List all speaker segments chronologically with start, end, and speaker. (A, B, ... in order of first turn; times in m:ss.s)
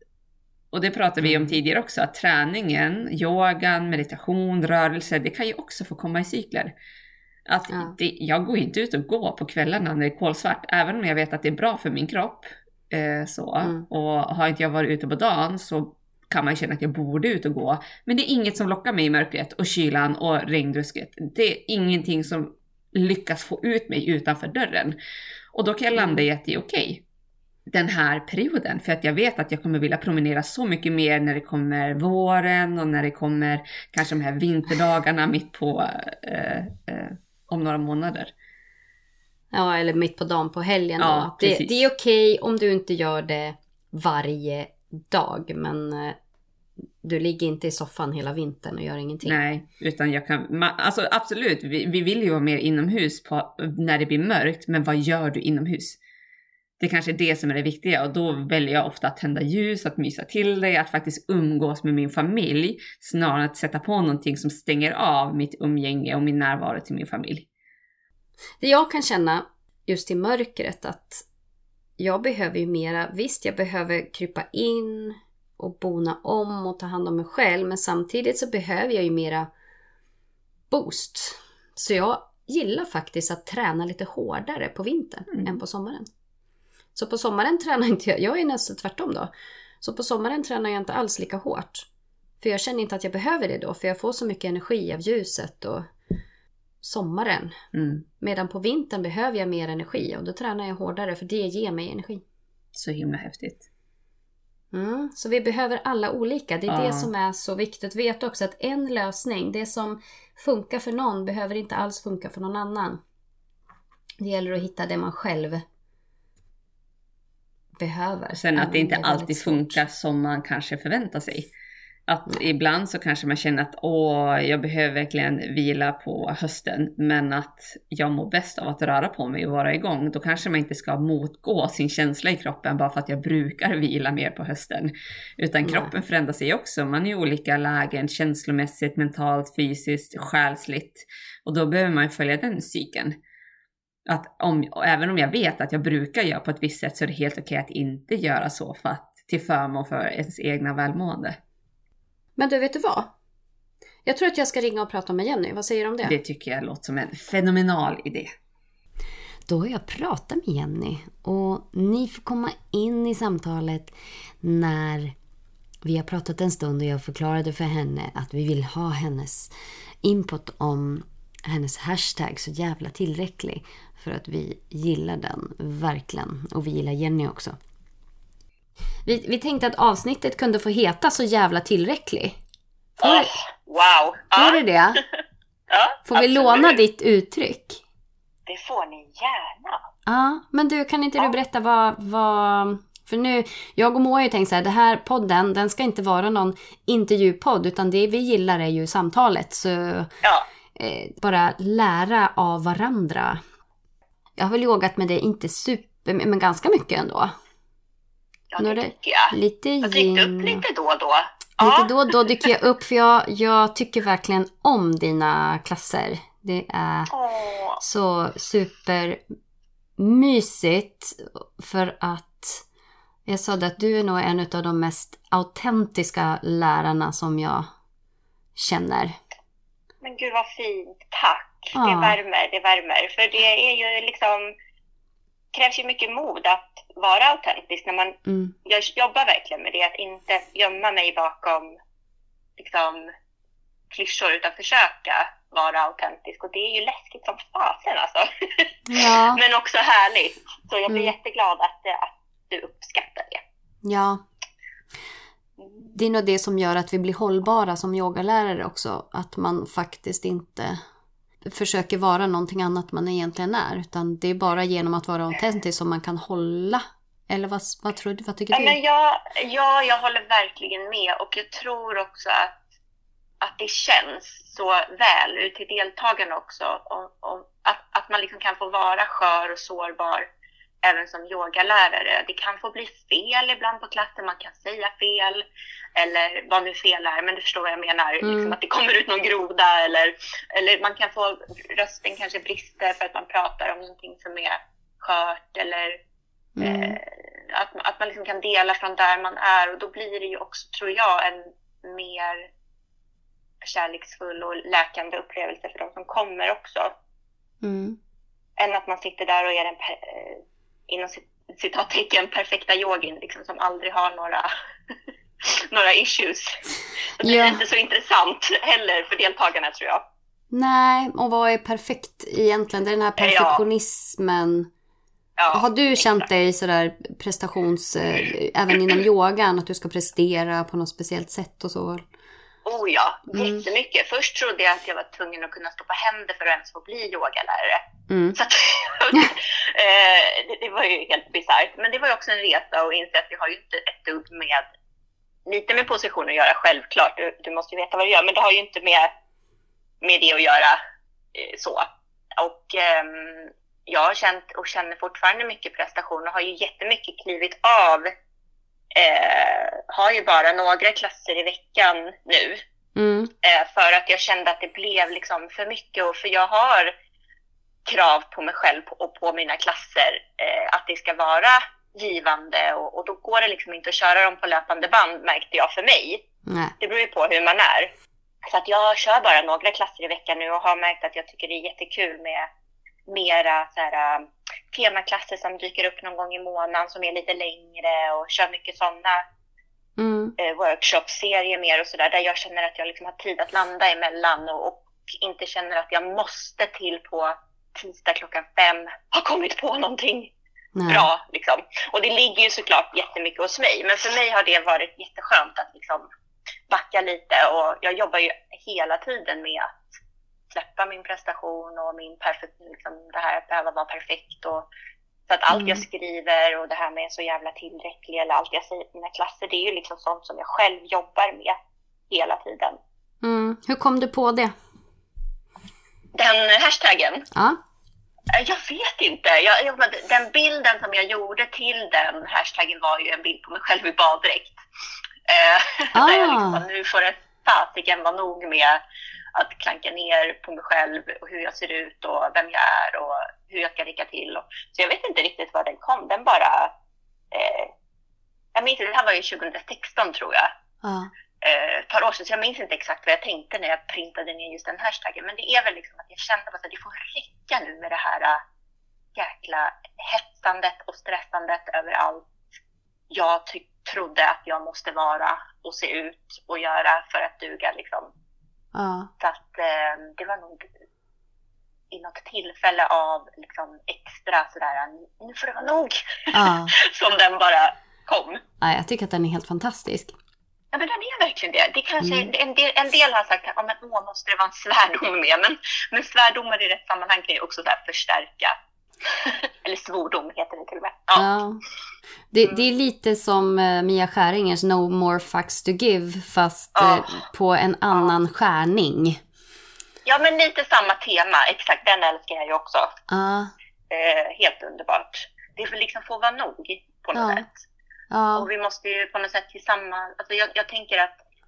0:00.7-0:06.7 A
0:01.2-0:01.6 B
0:07.5-0:25.0 A
0:25.5-0:27.0 A
0:26.0-0:26.2 B
0:27.7-0:38.3 A
0:39.5-0:46.2 B
0:41.0-0:41.9 A
0:47.0-0:49.4 B
0:49.2-0:56.0 A
0:56.8-1:07.5 A
1:08.6-1:11.2 B
1:12.0-1:19.5 B
1:20.7-1:26.1 B
1:27.0-1:31.9 B
1:32.4-1:35.9 B
1:36.8-1:37.6 B
1:37.7-1:38.0 A
1:38.2-1:42.2 B
1:42.8-1:43.7 A
1:44.7-1:53.0 B
1:46.7-1:47.1 A
1:54.2-1:55.6 B
1:57.8-1:59.8 B
1:58.3-2:01.5 A
2:02.1-2:23.2 A
2:15.6-2:15.9 B
2:24.1-2:31.4 A
2:32.4-2:33.1 B
2:34.0-2:36.2 B
2:36.0-2:38.3 A
2:39.5-2:45.2 B
2:45.8-2:49.5 B
2:50.0-2:57.6 B
2:59.0-3:02.4 B
3:03.0-3:05.1 C
3:03.0-3:03.3 B
3:04.3-3:05.0 B
3:05.7-3:06.8 C
3:06.1-3:07.8 B
3:08.5-3:09.8 C
3:10.1-3:20.1 B
3:20.8-3:23.4 B
3:24.4-3:27.3 B
3:28.5-3:31.9 C
3:28.6-3:30.6 B
3:31.6-3:37.1 B
3:37.1-3:37.8 C
3:37.8-3:39.2 B
3:40.0-3:42.6 B
3:43.3-3:47.7 B
3:48.6-3:49.2 B
3:50.0-3:54.5 C
3:51.8-3:52.2 B
3:55.5-4:01.8 C
3:58.3-3:58.5 B
4:02.6-4:03.1 C
4:03.9-4:13.4 C
4:08.9-4:09.4 B
4:13.8-4:14.2 B
4:15.6-4:15.9 C
4:15.9-4:20.8 B
4:21.5-4:28.8 B
4:28.5-4:32.6 C
4:33.4-4:40.3 C
4:40.8-4:45.4 C
4:46.0-4:56.0 C
4:48.2-4:48.6 B
4:56.6-4:57.0 B
4:56.6-5:02.5 C
5:03.6-5:06.9 C
5:07.6-5:08.0 B
5:08.6-5:14.5 C
5:15.4-5:16.6 C
5:17.2-5:20.0 C
5:17.2-5:17.6 B
5:20.5-5:24.7 B
5:23.2-5:23.6 C
5:25.4-5:26.3 C
5:25.5-5:32.0 B
5:32.6-5:37.8 C
5:33.3-5:33.6 B
5:38.1-5:38.4 B
5:38.4-5:44.7 C
5:45.5-5:49.1 C
5:50.0-5:50.8 C
5:51.4-5:58.1 C
5:59.0-6:02.6 C
6:03.0-6:03.3 B
6:03.4-6:06.9 C
6:07.9-6:16.2 C
6:16.5-6:16.7 B
6:16.8-6:17.9 C
6:18.4-6:22.5 C
6:23.1-6:29.2 C
6:30.0-6:30.3 B
6:30.4-6:40.3 C
6:40.8-6:41.1 B
6:40.9-6:46.1 C
6:46.7-6:49.8 C
6:50.5-6:54.7 C
6:55.3-7:01.6 C
6:55.5-6:55.8 B
7:02.1-7:02.8 C
7:03.2-7:04.5 B
7:06.1-7:07.3 C
7:08.3-7:14.6 C
7:15.3-7:18.8 C
7:15.9-7:16.6 B
7:19.4-7:26.7 C
7:27.3-7:27.7 C
7:28.6-7:30.5 C
7:30.8-7:31.1 B
7:31.4-7:38.4 C
7:39.2-7:42.2 C
7:43.1-7:48.1 C
7:48.7-7:49.1 B
7:49.2-7:50.7 C
7:51.9-7:58.4 C
7:56.3-7:56.7 B
7:58.6-8:00.1 B
8:00.7-8:11.4 C
8:02.0-8:02.3 B
8:11.2-8:11.6 B
8:12.3-8:19.2 B
8:16.8-8:17.2 C
8:20.0-8:22.9 C
8:23.1-8:23.5 B
8:23.9-8:27.6 C
8:27.1-8:27.4 B
8:28.1-8:28.5 B
8:28.4-8:31.2 C